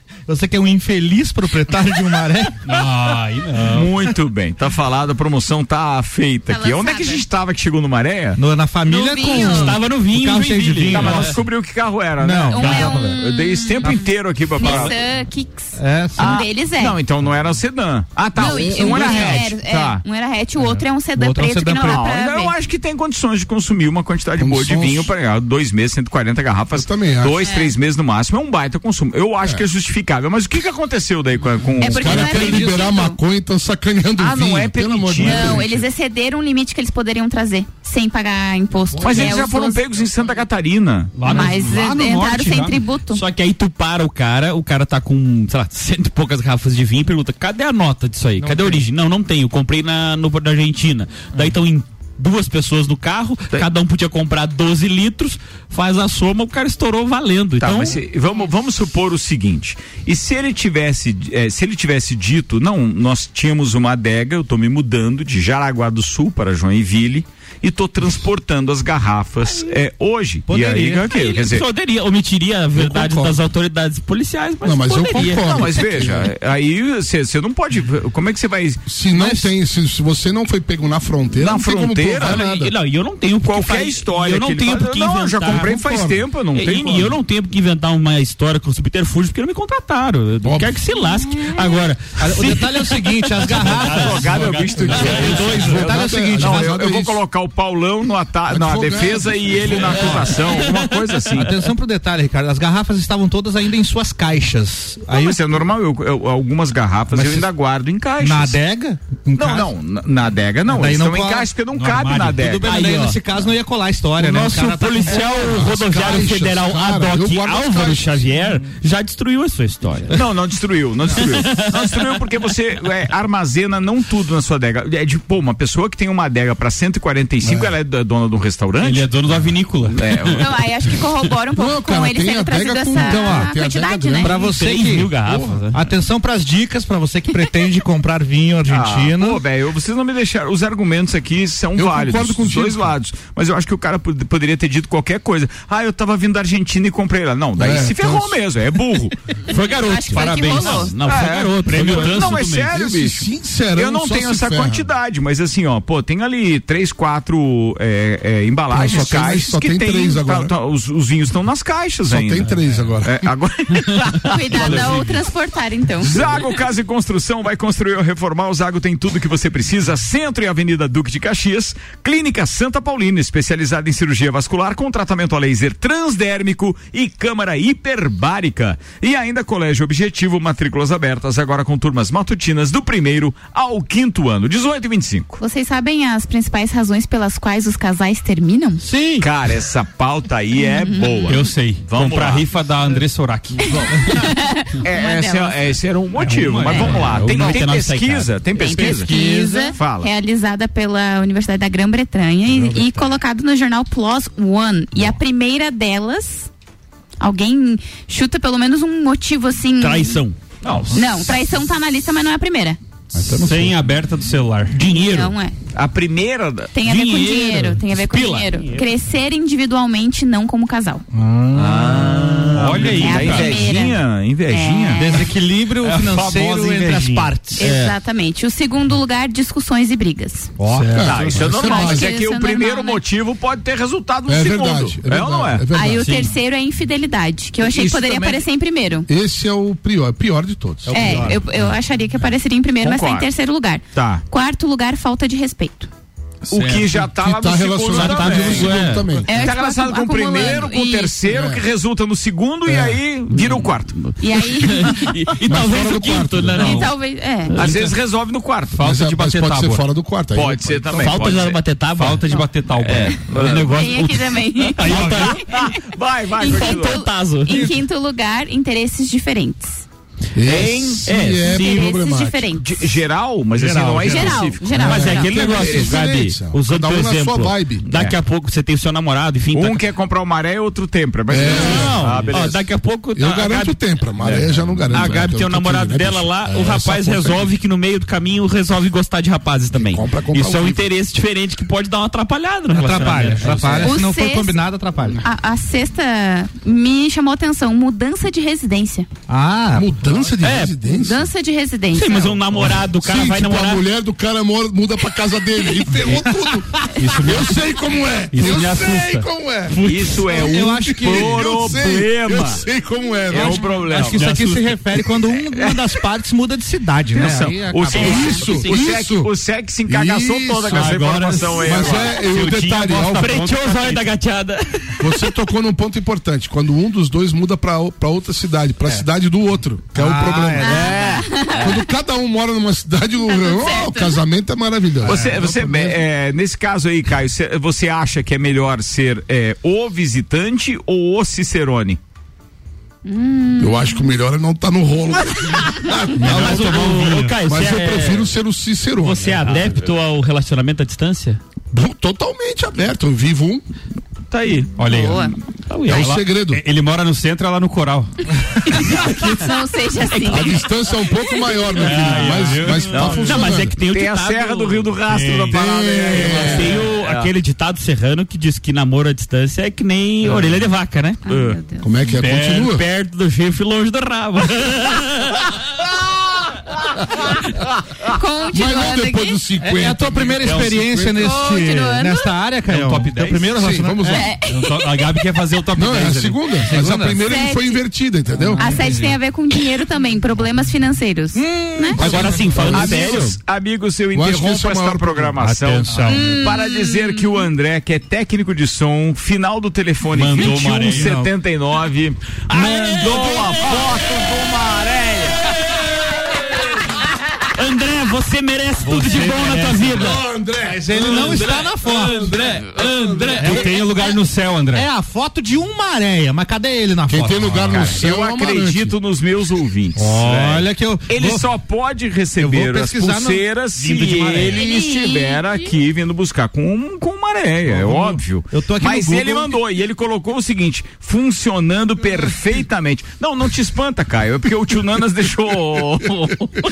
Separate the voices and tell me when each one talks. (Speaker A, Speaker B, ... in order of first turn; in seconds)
Speaker A: 0.3-2.5, 8.4-11.4, 12.2-13.2, 14.6-14.9, 15.7-16.4, 18.4-19.5, 20.6-22.0, 70.5-71.1, 79.1-79.5, 92.2-96.8, 101.3-105.4, 107.1-107.5, 108.2-109.7, 110.7-111.5, 112.3-115.5, 132.9-133.5, 134.2-135.1, 135.7-139.4, 188.8-189.3, 199.1-199.6, 213.2-213.8, 221.1-222.3, 224.9-227.7, 230.6-231.4, 240.9-241.4, 273.5-274.5, 281.9-282.2, 292.8-295.2, 299.3-299.9, 306.0-306.6, 309.8-311.8, 313.3-318.6, 329.9-331.0, 335.0-335.4, 379.6-384.2, 386.7-387.2, 388.3-389.1, 391.4-392.8, 395.4-396.2, 400.5-401.3, 402.6-403.4, 410.7-412.2, 413.4-413.8, 414.7-417.9, 420.0-421.5, 422.4-424.6, 427.7-429.6
Speaker B: 2.6-4.1, 41.2-42.8, 93.7-95.8, 111.7-112.5, 128.8-130.4, 151.7-152.7, 164.2-165.2, 191.3-194.2, 196.2-197.6, 213.3-214.8, 222.5-223.5, 225.8-227.4, 230.7-231.2, 236.0-236.3, 256.4-256.9, 257.6-257.9, 258.7-259.8, 261.9-263.7, 264.8-265.4, 293.1-293.7, 307.0-307.7, 308.3-309.3, 314.0-314.8, 320.7-324.2, 346.2-347.3, 354.8-355.2, 355.9-358.1, 361.8-363.2, 365.1-366.5, 370.3-370.5, 372.1-372.7, 380.4-381.1, 382.7-383.6, 384.5-387.0, 392.2-393.2, 395.4-396.2, 400.1-401.2, 408.8-410.2, 411.0-414.9
Speaker C: 3.6-8.4, 10.9-14.9, 16.2-20.0, 21.9-32.7, 34.2-35.8, 39.0-41.4, 57.6-71.7, 75.2-78.8, 81.4-82.5, 83.4-87.2, 93.7-101.6, 105.1-108.6, 109.3-112.7, 120.1-130.5, 138.7-149.2, 151.0-165.0, 166.0-185.4, 189.2-192.5, 194.8-200.1, 210.6-211.3, 215.8-216.7, 221.6-225.2, 231.0-235.7, 237.8-238.4, 242.8-243.3, 243.9-244.2, 246.5-254.1, 257.6-258.8, 260.3-261.6, 263.3-263.8, 264.9-267.0, 270.4-271.1, 272.6-276.1, 279.5-282.6, 309.8-312.6, 313.3-314.4, 315.5-315.9, 317.1-322.2, 330.8-331.7, 335.1-342.0, 354.3-354.7, 362.9-367.3, 371.3-371.6, 392.7-405.5, 417.7-436.5
Speaker D: 6.5-7.2, 8.9-9.8, 12.5-17.0, 18.3-22.5, 27.4-27.7, 31.8-33.2, 35.2-39.8, 41.2-43.2, 130.3-134.5, 149.5-151.0, 164.3-166.4, 185.4-188.8, 190.6-191.5, 193.7-195.8, 196.7-197.1, 198.5-206.5, 207.2-210.2, 210.9-212.8, 214.9-215.6, 216.7-221.0, 223.0-225.3, 227.6-230.5, 231.5-233.0, 235.7-239.1, 240.9-245.9, 249.3-251.2, 254.2-255.2, 256.6-257.6, 263.7-265.8, 266.4-269.9, 271.4-272.8, 274.0-275.5, 293.8-294.6, 295.2-299.1, 300.9-302.5, 318.0-318.4, 330.6-331.9, 333.2-334.2, 343.1-344.1, 354.9-355.3, 358.8-361.6, 371.2-372.0, 378.1-379.4, 381.1-382.3, 384.1-385.1, 387.1-387.8, 388.6-392.2, 396.1-397.5, 424.4-425.7
Speaker E: 9.3-11.3, 43.1-58.0, 70.7-75.9, 82.2-85.8, 86.5-95.1, 112.6-113.2, 114.2-120.2, 121.2-121.5, 134.4-135.9, 149.5-152.5, 197.1-198.9, 209.8-210.4, 214.7-215.3, 216.8-218.6, 227.6-227.9, 247.9-249.2, 253.5-253.8, 254.4-256.9, 257.6-257.9, 261.0-265.4, 266.5-267.6, 270.9-271.6, 274.7-279.9, 281.4-293.9, 300.4-300.8, 301.9-303.9, 317.9-318.9, 323.1-325.3, 346.2-348.3, 349.0-351.4, 355.7-356.2, 360.1-360.6, 362.1-365.0, 366.3-371.2, 372.5-375.4, 392.0-393.3, 407.5-410.2, 412.3-412.8
Speaker F: 24.4-25.1, 26.8-27.4, 31.9-35.8, 38.9-39.5, 72.8-73.4, 74.6-76.3, 78.9-82.7, 85.5-86.2, 90.4-90.8, 94.8-97.2, 98.5-100.2, 115.2-118.3, 127.4-127.8, 131.6-134.4, 135.2-135.6, 141.8-143.0, 147.6-148.4, 152.4-154.9, 158.7-160.5, 162.1-163.3, 230.9-232.1, 234.3-236.3, 239.1-241.3, 247.0-249.4, 251.3-251.6, 252.7-253.0, 255.4-256.8, 258.8-261.4, 270.4-272.5, 274.7-277.9, 281.3-282.0, 283.1-287.5, 289.7-290.8, 299.7-301.3, 302.9-309.8, 310.9-313.7, 317.9-319.3, 319.9-323.5, 325.0-331.0, 331.6-336.0, 343.6-349.7, 351.7-353.6, 355.9-356.6, 360.3-363.7, 365.5-366.8, 371.8-372.8, 378.5-381.4, 383.6-384.3, 385.8-388.7, 392.0-393.1, 394.1-395.4, 409.8-411.6, 412.1-413.5, 417.1-418.9